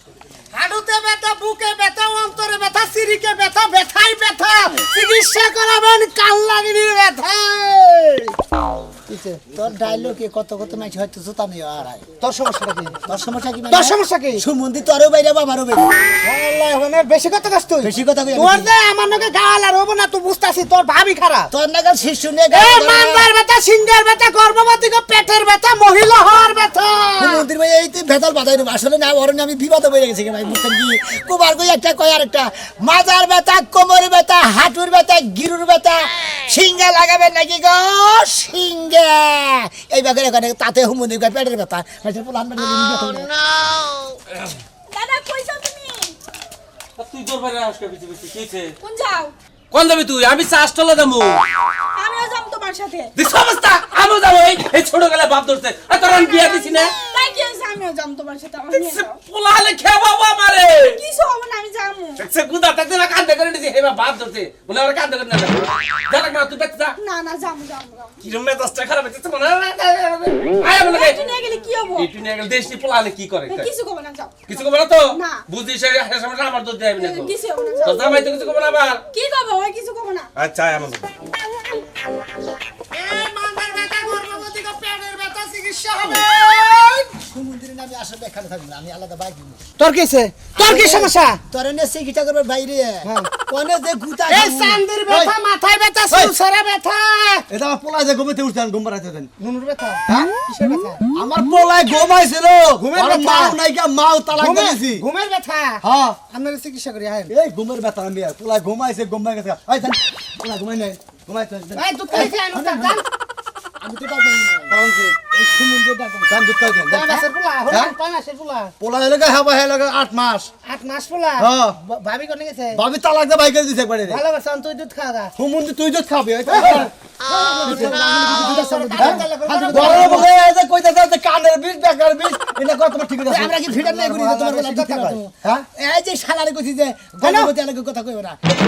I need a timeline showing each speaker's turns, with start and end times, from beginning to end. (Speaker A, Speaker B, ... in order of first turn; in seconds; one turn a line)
Speaker A: 0.5-8.3
Speaker A: 9.1-9.4
Speaker B: 9.5-12.1
Speaker A: 12.2-13.0
Speaker B: 13.1-15.9
Speaker A: 13.7-14.4
Speaker A: 16.2-21.5
Speaker B: 17.8-18.7
Speaker B: 21.5-23.3
Speaker A: 22.5-27.4
Speaker B: 27.2-43.3
Speaker C: 44.9-46.1
Speaker D: 47.0-48.7
Speaker C: 48.8-49.3
Speaker D: 49.7-51.4
Speaker C: 52.0-53.1
Speaker D: 53.1-57.0
Speaker C: 56.2-59.1
Speaker D: 58.7-61.0
Speaker C: 61.0-62.2
Speaker D: 62.1-67.0
Speaker C: 67.0-68.1
Speaker D: 68.2-71.2
Speaker C: 70.9-72.0
Speaker D: 71.9-73.7
Speaker C: 73.5-74.3
Speaker D: 74.5-79.0
Speaker C: 77.0-78.1
Speaker C: 79.1-80.2
Speaker D: 80.4-81.0
Speaker A: 82.9-87.1
Speaker B: 87.1-89.6
Speaker A: 89.8-91.4
Speaker B: 90.5-94.8
Speaker A: 93.0-93.3
Speaker A: 94.3-97.5
Speaker E: 97.5-99.3
Speaker A: 99.4-101.0
Speaker E: 101.1-105.0
Speaker A: 102.8-103.6
Speaker A: 104.4-107.3
Speaker E: 105.8-106.2
Speaker E: 107.3-112.3
Speaker A: 111.7-113.0
Speaker B: 112.5-113.0
Speaker B: 113.8-116.6
Speaker E: 116.4-117.9
Speaker A: 116.7-118.7
Speaker E: 118.8-120.5
Speaker A: 120.6-122.8
Speaker E: 121.4-121.7
Speaker E: 122.8-124.2
Speaker A: 124.0-125.3
Speaker E: 125.4-126.9
Speaker A: 126.4-130.3
Speaker B: 126.5-130.3
Speaker E: 127.8-129.2
Speaker E: 129.8-133.4
Speaker B: 133.2-138.6
Speaker A: 133.3-135.6
Speaker A: 137.2-137.5